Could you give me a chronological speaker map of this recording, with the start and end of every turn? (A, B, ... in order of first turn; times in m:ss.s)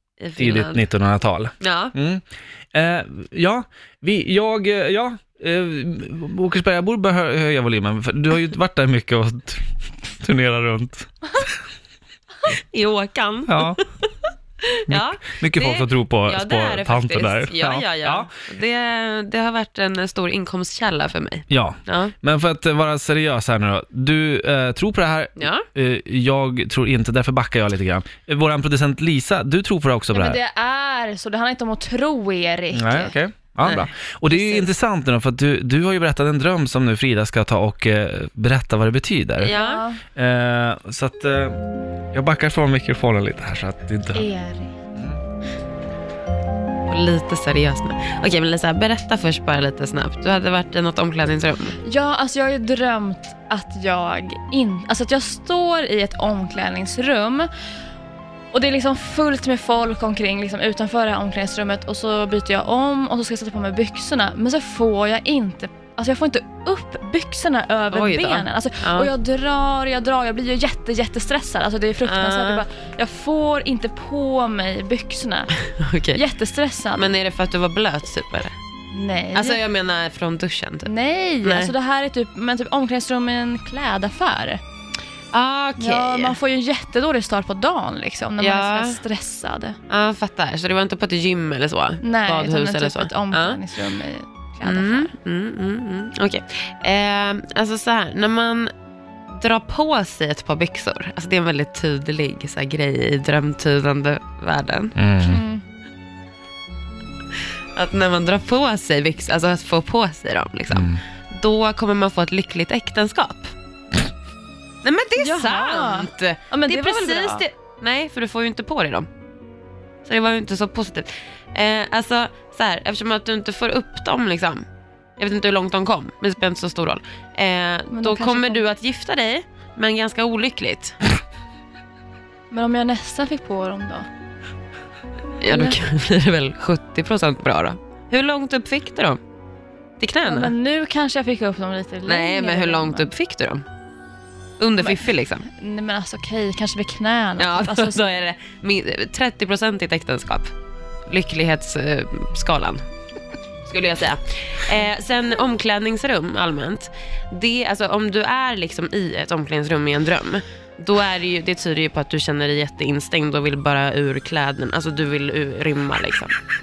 0:00.2-0:00.9 A
0:00.4-0:09.6 B
0:01.6-0:02.0 A
0:10.2-0:11.5 B
0:12.4-0:13.8 A
0:13.5-0:13.8 B
0:14.6-0:22.1 A
0:14.9-0:18.3 B
0:21.5-0:30.4 B
0:25.4-0:25.7 A
0:30.1-0:33.2 C
0:32.7-0:39.5 B
0:33.6-0:34.7 A
0:39.4-0:39.8 A
0:39.5-0:40.0 C
0:40.2-0:41.6 B
0:42.1-0:44.3 B
0:44.1-0:44.8 C
0:46.9-0:51.8 A
0:51.8-0:57.5 C
0:58.5-1:15.6 C
1:07.9-1:09.1 A
1:12.0-1:12.6 A
1:15.8-1:16.2 A
1:16.2-1:17.1 C
1:16.9-1:18.6 A
1:18.9-1:19.6 C
1:19.3-1:21.7 A
1:20.8-1:24.6 C
1:25.3-1:26.4 A
1:25.8-1:29.8 C
1:28.4-1:29.0 A
1:29.9-1:33.6 A
1:32.0-1:35.1 C
1:34.6-1:38.7 A
1:39.3-1:45.0 A
1:45.0-1:45.4 B
1:45.3-1:45.6 C
1:47.4-1:53.5 A
1:50.7-1:51.0 B
1:54.8-1:59.1 A
1:55.2-1:57.4 C
2:00.0-2:04.6 A
2:05.2-2:11.0 A
2:07.9-2:08.6 C
2:12.5-2:14.1 C
2:15.4-2:19.2 A
2:15.5-2:15.8 C
2:20.0-2:20.5 A
2:20.3-2:23.1 C
2:22.0-2:23.6 A
2:24.6-2:25.5 A
2:24.8-2:28.1 C
2:27.4-2:30.5 A
2:31.1-2:32.8 A
2:33.6-2:46.4 A